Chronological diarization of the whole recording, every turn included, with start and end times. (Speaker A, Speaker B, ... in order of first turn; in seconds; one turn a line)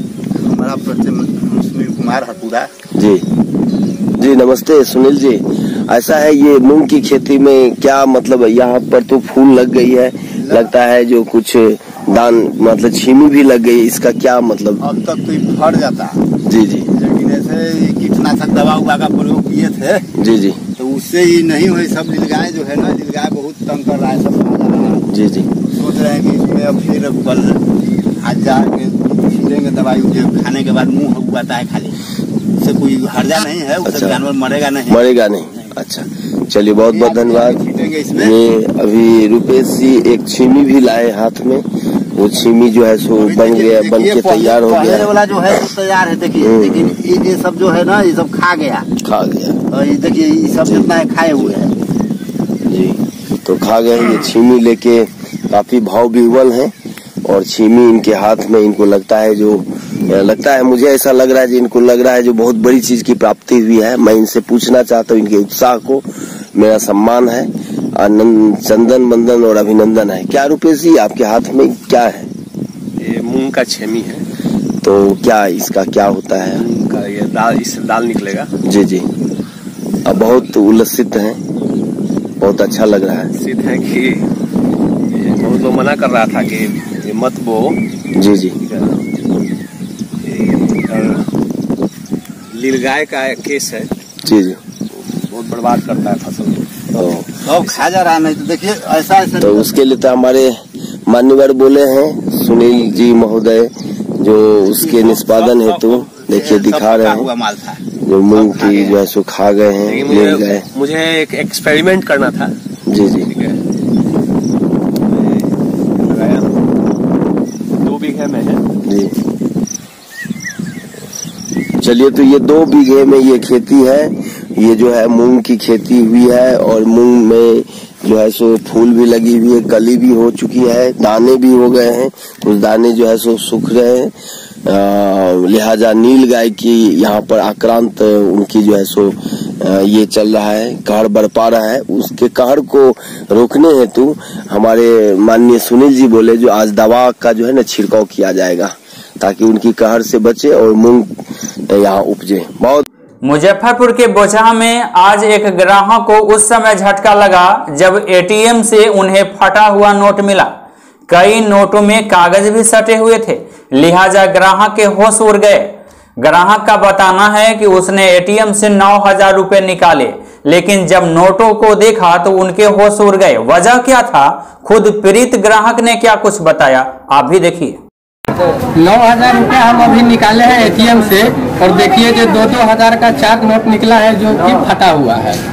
Speaker A: 0.4-2.7
Speaker B: 2.9-3.2
Speaker B: 4.1-14.8
Speaker A: 10.4-10.7
Speaker A: 14.8-16.2
Speaker B: 16.4-16.9
Speaker A: 16.9-20.1
Speaker B: 20.2-20.6
Speaker A: 20.8-25.1
Speaker B: 25.1-25.5
Speaker A: 25.7-32.0
Speaker A: 32.6-35.1
Speaker B: 33.8-34.2
Speaker B: 34.9-37.6
Speaker A: 36.9-38.4
Speaker B: 38.2-45.1
Speaker A: 43.2-48.9
Speaker B: 46.4-47.0
Speaker B: 49.0-49.6
Speaker A: 49.7-51.7
Speaker B: 50.6-51.6
Speaker B: 52.7-56.7
Speaker B: 57.2-72.3
Speaker C: 73.0-74.2
Speaker B: 74.8-76.6
Speaker C: 76.5-78.5
Speaker B: 78.6-79.0
Speaker B: 80.0-81.4
Speaker B: 82.4-83.3
Speaker C: 83.4-84.2
Speaker C: 85.1-87.8
Speaker B: 88.2-88.5
Speaker C: 88.6-89.0
Speaker C: 90.2-91.2
Speaker C: 92.5-93.9
Speaker B: 94.2-94.6
Speaker C: 94.9-96.6
Speaker B: 96.9-97.3
Speaker A: 97.4-99.7
Speaker B: 99.4-107.3
Speaker A: 104.8-108.9
Speaker B: 108.0-110.7
Speaker C: 108.6-108.9
Speaker C: 109.8-112.5
Speaker B: 112.9-113.3
Speaker C: 113.3-113.6
Speaker C: 115.0-116.5
Speaker C: 117.8-118.6
Speaker B: 118.8-119.1
Speaker B: 121.8-134.1
Speaker B: 134.7-151.1
Speaker B: 151.7-152.8
Speaker D: 153.2-160.5
Speaker D: 161.1-165.7
Speaker D: 166.2-177.8
Speaker E: 178.7-185.4